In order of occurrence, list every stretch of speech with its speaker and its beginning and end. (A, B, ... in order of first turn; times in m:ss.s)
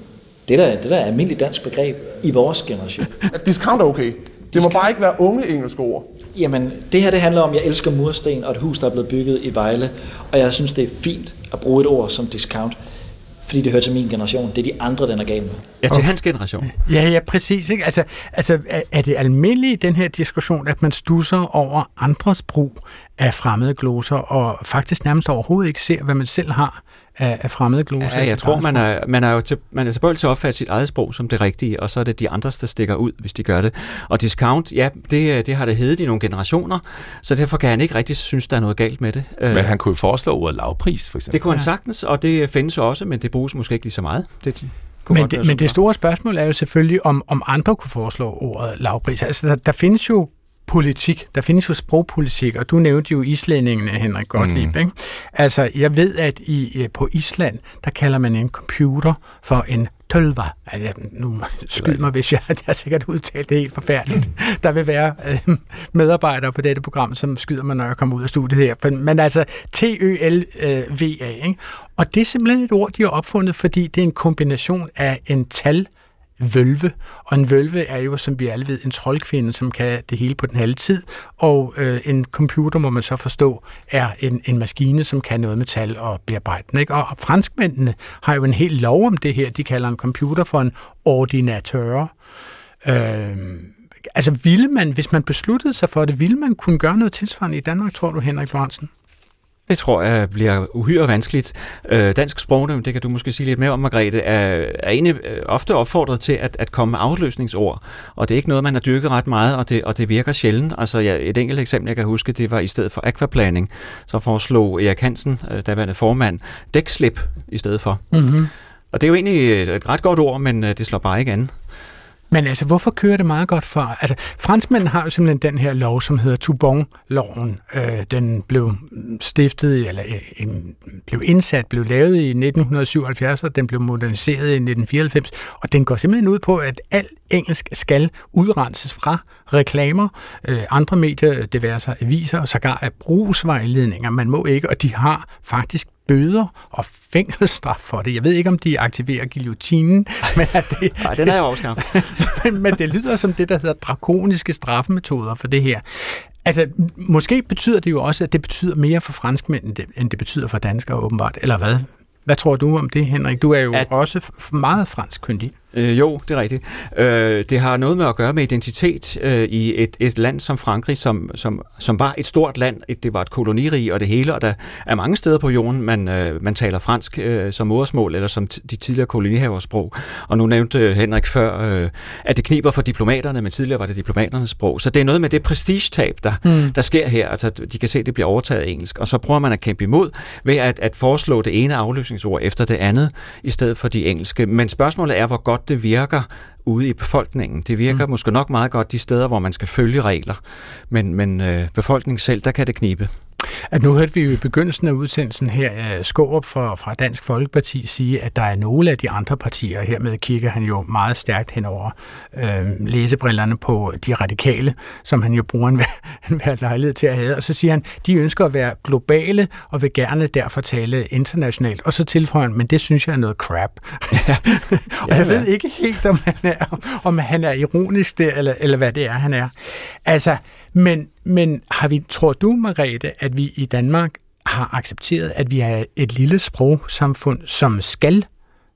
0:00.4-0:03.2 A
0:03.3-0:06.1 B
0:06.3-0:12.8 A
0:13.4-0:15.6 A
0:15.8-0:16.7 C
0:16.7-0:28.8 D
0:28.0-0:39.7 C
0:39.5-0:41.4 E
0:41.3-0:45.8 C
0:45.1-1:32.1 D
0:54.4-0:54.7 E
1:32.8-1:38.9 D
1:39.7-1:58.0 C
1:58.1-1:58.5 D
1:58.9-2:01.5 C
2:02.3-2:45.5 D
2:31.0-2:32.3 C
2:45.7-3:23.1 C
3:06.4-3:06.7 D
3:23.7-3:58.3 D
3:44.1-3:44.5 C
3:45.0-3:45.4 C